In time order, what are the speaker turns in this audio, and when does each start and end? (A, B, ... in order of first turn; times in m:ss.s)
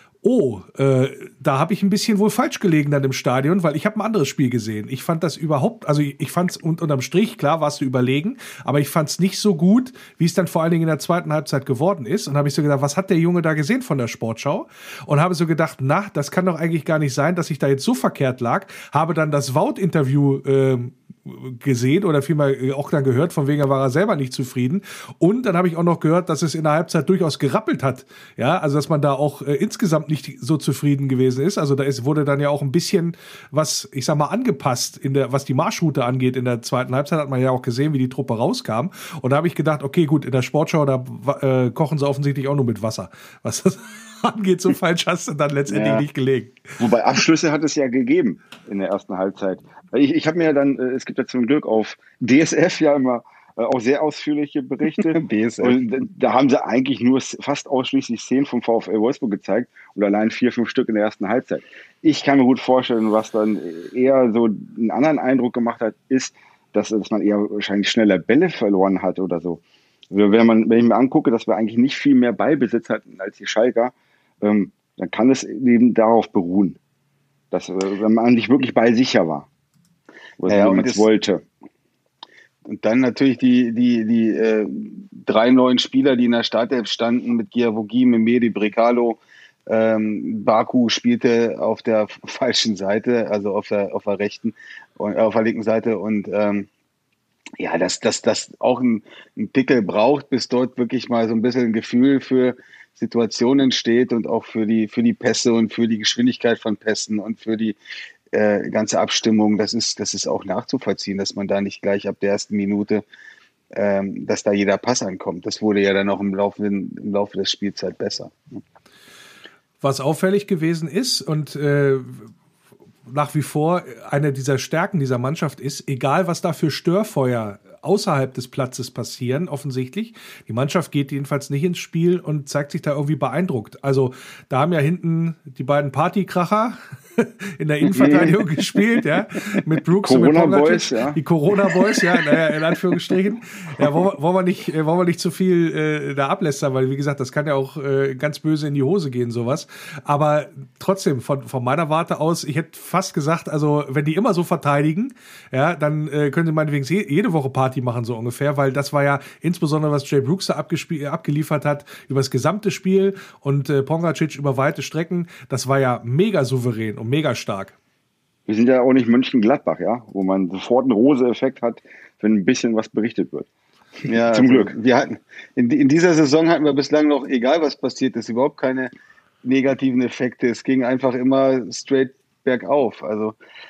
0:00.2-0:46.8 A
0:45.7-0:46.0 B
0:46.8-1:16.8 C
0:55.1-0:55.8 B
1:17.5-1:19.5 C
1:20.4-1:21.4 C
1:20.5-1:21.1 B
1:22.7-1:36.7 B
1:37.6-1:47.8 B
1:48.3-1:53.0 B
1:53.7-1:58.6 B
1:59.8-2:02.3 A
2:03.1-2:47.8 A
2:17.9-2:18.4 B
2:20.0-2:21.2 C
2:48.5-2:53.5 C
2:54.1-2:54.8 C
2:54.1-2:58.9 B
2:59.4-3:03.4 B